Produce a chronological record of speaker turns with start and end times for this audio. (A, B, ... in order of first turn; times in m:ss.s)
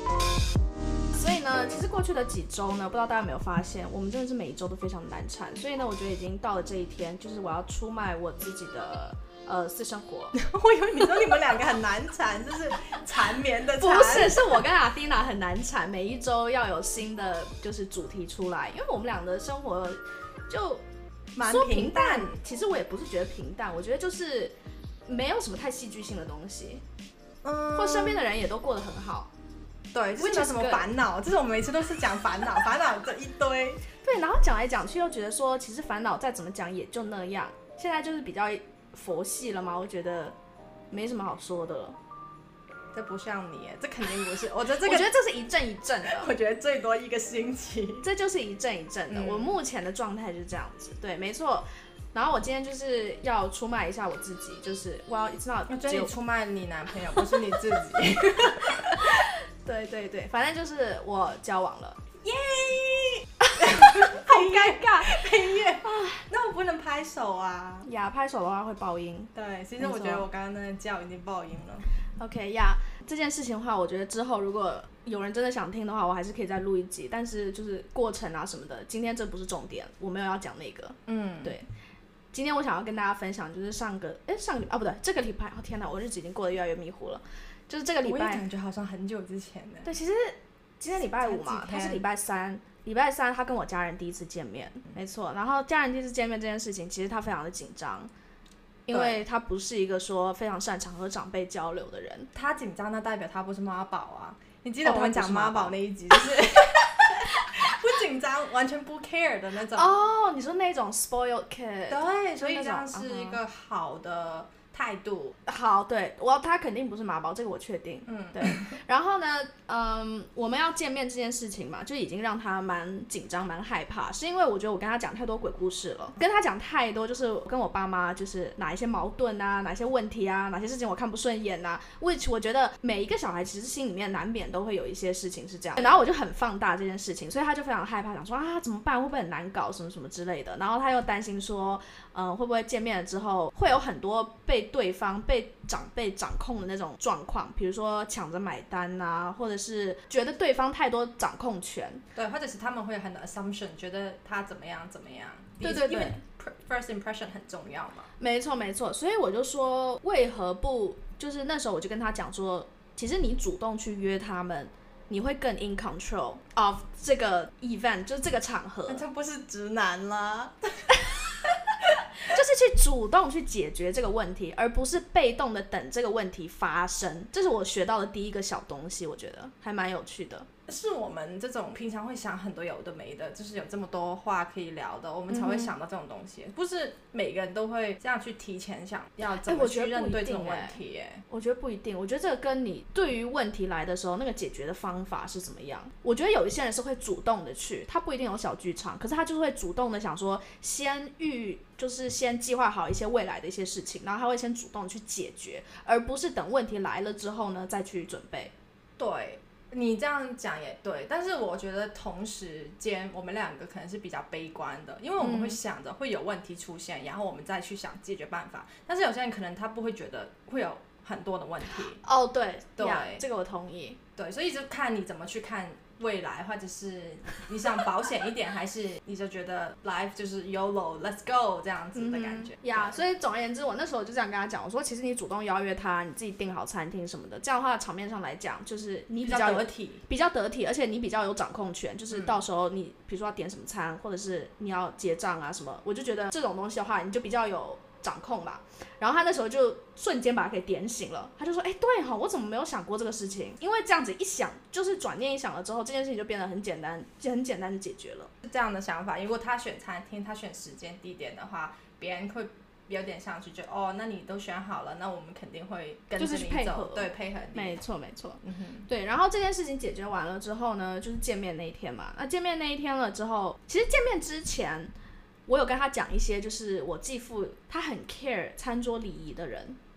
0:01.1-0:10.4 A
0:10.3-0:14.6 B
0:13.8-0:20.8 A
0:21.4-0:22.4 B
0:21.4-0:24.5 A
0:25.1-0:26.8 A
0:27.4-0:28.2 B
0:27.8-0:29.3 A
0:29.9-0:33.8 B
0:30.2-0:30.9 A
0:34.0-0:40.4 A
0:40.9-0:42.0 A
0:42.9-0:45.1 B
0:44.8-0:46.3 A
0:46.0-0:48.1 B
0:48.0-0:56.1 A
0:49.1-0:49.6 B
0:55.7-0:59.0 B
0:59.0-1:02.0 A
1:02.2-1:07.9 B
1:03.6-1:05.3 A
1:05.8-1:06.2 A
1:07.8-1:10.2 A
1:09.3-1:11.9 B
1:12.2-1:21.7 A
1:21.1-1:21.6 B
1:22.3-1:28.4 A
1:28.0-1:29.9 B
1:29.8-1:38.1 A
1:30.9-1:32.0 B
1:38.9-1:42.3 A
1:38.9-1:39.2 B
1:42.3-1:50.0 B
1:44.8-1:45.8 A
1:47.4-1:47.7 A
1:49.7-1:53.4 A
1:51.9-1:55.4 B
1:55.5-2:32.0 A
1:58.1-1:58.8 B
2:15.8-2:16.0 B
2:32.2-2:38.1 B
2:35.6-2:36.2 A
2:38.2-2:49.0 A
2:48.9-2:50.9 B
2:52.2-3:00.5 A
3:00.7-3:11.2 B
3:05.3-3:05.7 A
3:09.4-3:10.8 A
3:11.3-3:28.5 A
3:29.0-3:42.0 B
3:35.2-3:35.6 A
3:42.0-3:44.0 A
3:42.8-3:43.2 B
3:44.2-3:53.0 B
3:52.0-4:18.3 A
3:59.2-4:00.0 B
4:02.1-4:02.4 B
4:18.4-4:27.8 B
4:26.2-4:34.9 A
4:28.4-4:28.9 B
4:35.5-4:39.8 A